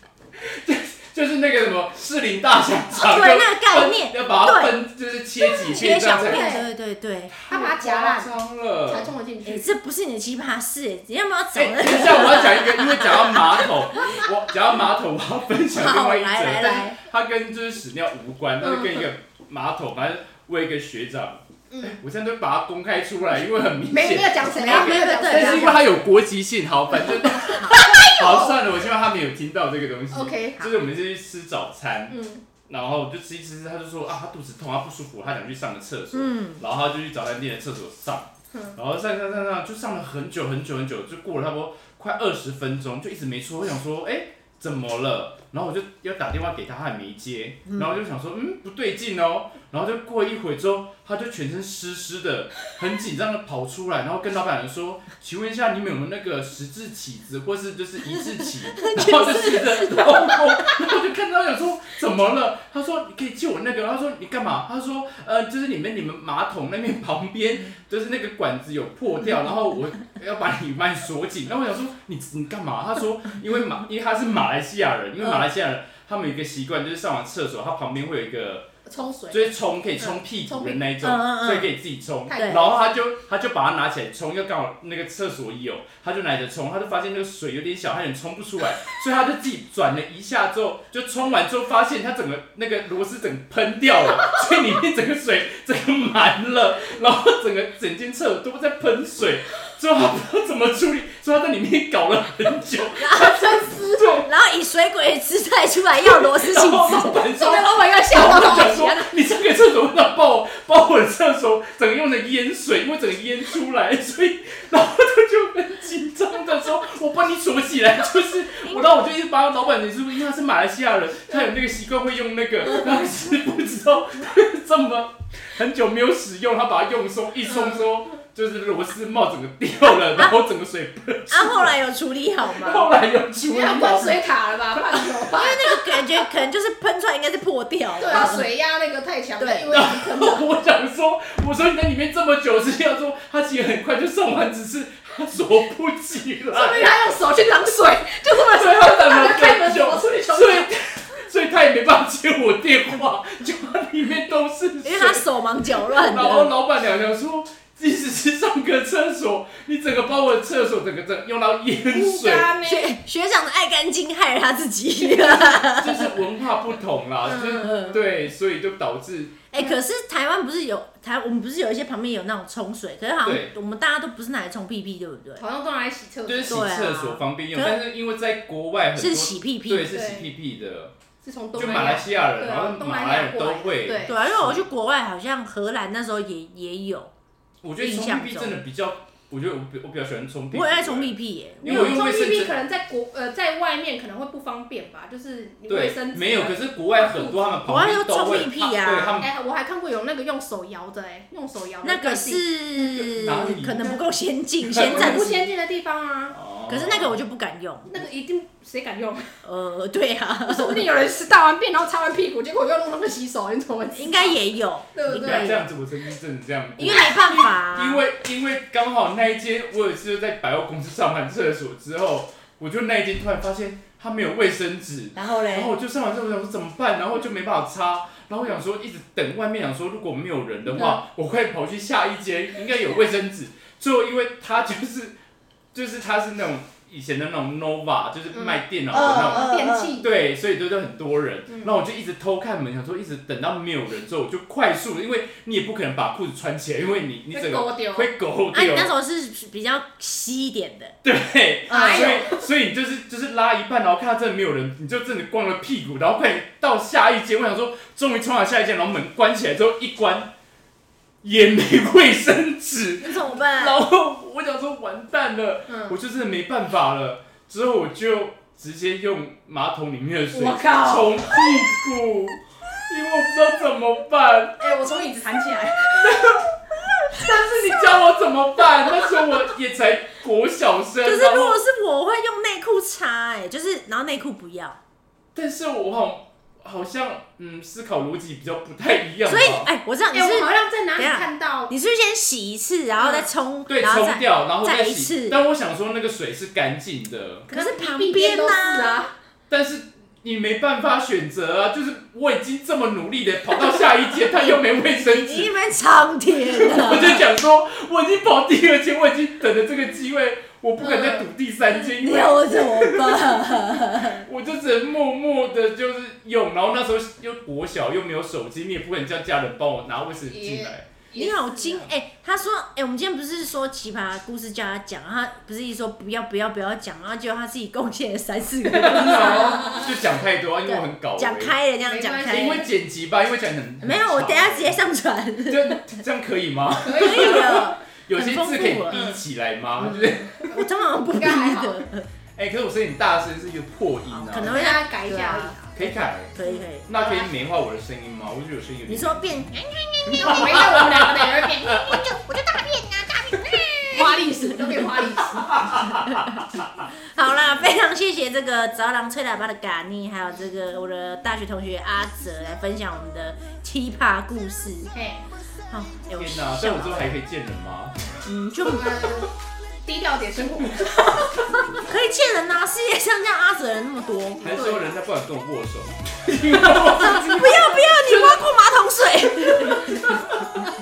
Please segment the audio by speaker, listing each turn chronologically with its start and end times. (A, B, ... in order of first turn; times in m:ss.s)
0:00.4-0:06.5 A
0:03.0-0:04.8 B
0:05.6-0:07.3 B
0:05.7-0:06.7 C
0:07.3-0:09.1 A
0:07.5-0:08.4 C
0:08.9-0:09.7 C
0:09.4-0:14.2 B
0:11.6-1:18.7 A
0:15.7-0:17.0 B
0:18.6-0:19.1 C
0:21.7-0:22.0 C
0:23.9-0:25.9 C
0:24.5-0:25.8 B
0:27.1-0:28.6 C
0:27.4-0:27.8 B
0:30.1-0:30.7 C
0:32.1-0:32.4 C
0:36.1-0:36.6 B
0:38.5-0:38.8 C
0:58.7-1:00.5 B
1:18.9-1:20.9 C
1:19.3-1:44.3 A
1:21.0-1:21.7 B
1:22.3-1:22.8 C
1:22.3-1:22.6 B
1:43.0-1:43.4 B
1:43.1-1:44.2 C
1:44.1-1:47.2 B
1:46.0-2:11.8 A
1:47.4-1:49.1 C
2:07.5-2:07.9 C
2:11.3-2:12.9 B
2:12.4-2:14.2 A
2:13.4-2:16.2 C
2:15.3-2:18.5 B
2:18.0-2:20.4 C
2:19.4-2:19.7 B
2:19.7-2:26.9 A
2:26.5-2:30.7 C
2:28.4-2:42.5 A
2:34.8-2:36.5 B
2:41.8-2:43.0 C
2:42.6-2:46.1 B
2:45.2-2:49.4 A
2:47.2-2:48.1 C
2:47.6-2:48.0 B
2:49.5-2:55.4 B
2:53.2-2:53.6 A
2:55.4-2:56.7 C
2:56.3-3:00.9 A
2:56.5-2:57.8 B
2:59.0-2:59.9 B
2:59.9-3:00.3 C
3:01.2-3:04.2 C
3:01.6-3:04.7 A
3:04.0-3:07.1 B
3:07.6-3:12.6 A
3:07.8-3:08.6 B
3:10.5-3:12.0 B
3:11.6-3:17.6 C
3:15.7-3:19.3 A
3:17.6-3:19.2 B
3:19.2-3:22.4 C
3:21.8-3:25.5 B
3:22.8-3:23.8 A
3:23.7-3:24.0 C
3:24.6-3:25.3 A
3:24.9-3:26.4 C
3:26.3-3:27.2 A
3:26.7-3:28.0 B
3:27.9-3:29.4 C
3:29.4-3:30.8 B
3:30.5-3:34.4 C
3:33.9-3:35.6 B
3:35.0-3:35.6 C
3:35.1-3:55.2 A
3:36.8-3:38.0 B
3:45.2-3:45.8 B
3:55.7-4:08.9 A
3:58.3-4:00.1 C
3:58.9-4:00.0 B
4:01.5-4:01.8 C
4:07.3-4:08.1 C
4:08.5-4:11.0 B
4:11.0-4:20.3 A
4:11.7-4:12.2 B
4:11.7-4:12.4 C
4:21.2-4:34.8 A
4:23.0-4:23.8 B
4:25.7-4:26.0 C
4:30.3-4:31.6 C
4:34.6-4:36.4 C
4:36.0-4:36.4 A
4:37.1-4:41.6 A
4:39.0-4:39.3 C
4:41.0-4:44.8 B
4:45.3-4:49.7 A
4:49.2-4:55.4 B
4:50.1-4:51.7 C
4:53.0-4:53.3 C
4:53.7-4:57.5 A
4:57.5-4:59.0 B
4:57.5-4:59.1 C
4:59.5-5:05.6 A
5:03.7-5:07.2 B
5:06.5-5:20.9 A
5:10.8-5:11.2 B
5:11.7-5:14.3 B
5:20.3-5:21.9 C
5:21.2-5:29.8 B
5:28.8-5:31.6 A
5:29.4-5:29.8 C
5:30.7-5:32.6 B
5:31.8-5:32.7 C
5:32.3-5:34.8 A
5:33.8-5:35.8 B
5:35.5-5:40.4 A
5:36.8-5:37.7 C
5:36.9-5:39.1 B
5:38.9-5:39.2 C
5:39.9-5:42.1 B
5:40.3-5:40.6 C
5:41.2-5:41.8 C
5:42.4-5:44.6 A
5:44.1-5:45.6 B
5:44.4-5:47.3 C
5:45.8-5:46.3 A
5:46.3-5:46.9 B
5:46.9-5:49.4 A
5:48.9-5:51.0 B
5:50.1-5:55.6 C
5:50.2-5:52.0 A
5:52.2-5:54.8 B
5:55.5-5:56.4 A
5:55.8-6:04.9 B
6:04.9-6:05.2 C
6:05.7-6:07.1 B
6:06.2-6:08.0 A
6:08.2-6:09.1 B
6:08.6-6:09.3 C
6:09.8-6:11.5 C
6:11.8-6:14.5 B
6:14.4-6:18.4 A
6:14.4-6:14.9 C
6:16.8-6:20.3 B